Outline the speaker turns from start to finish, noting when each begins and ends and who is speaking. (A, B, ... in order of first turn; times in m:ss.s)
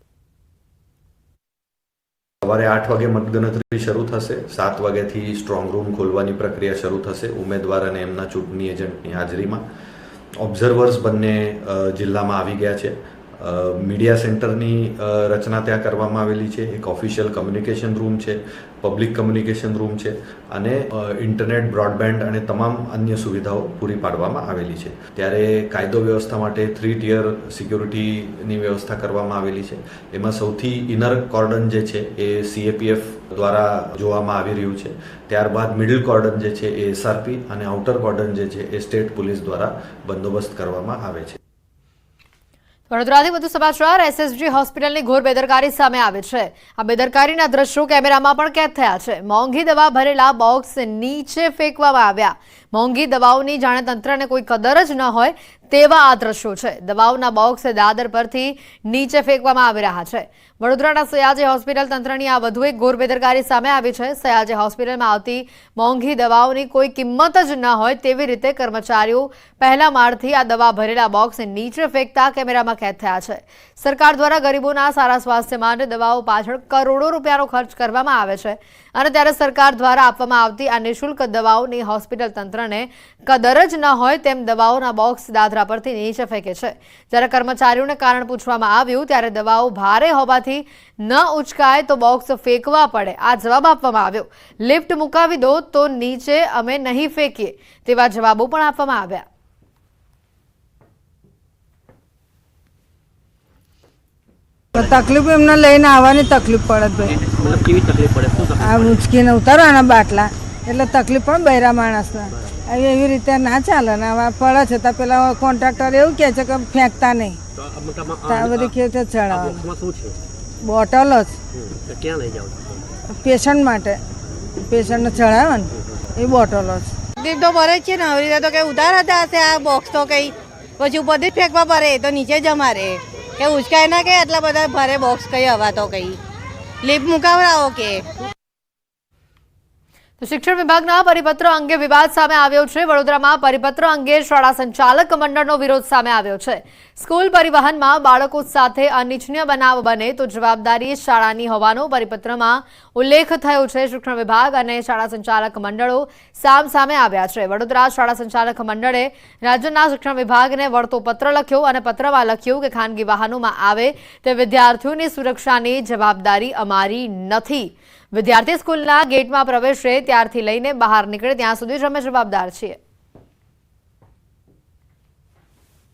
0:02.4-0:09.6 A
0:10.4-0:41.4 A
0:42.9-1:39.2 B
1:44.7-1:47.2 C
1:47.4-1:48.6 D
1:48.6-1:57.4 C
1:57.9-1:58.3 D
1:58.2-1:59.6 C
1:59.7-2:00.1 D
2:00.6-2:01.4 C
2:01.9-2:02.6 D
2:03.1-2:04.0 C
2:04.6-2:06.9 C
2:07.2-2:16.2 E
2:16.8-2:18.0 E
2:20.2-2:52.8 B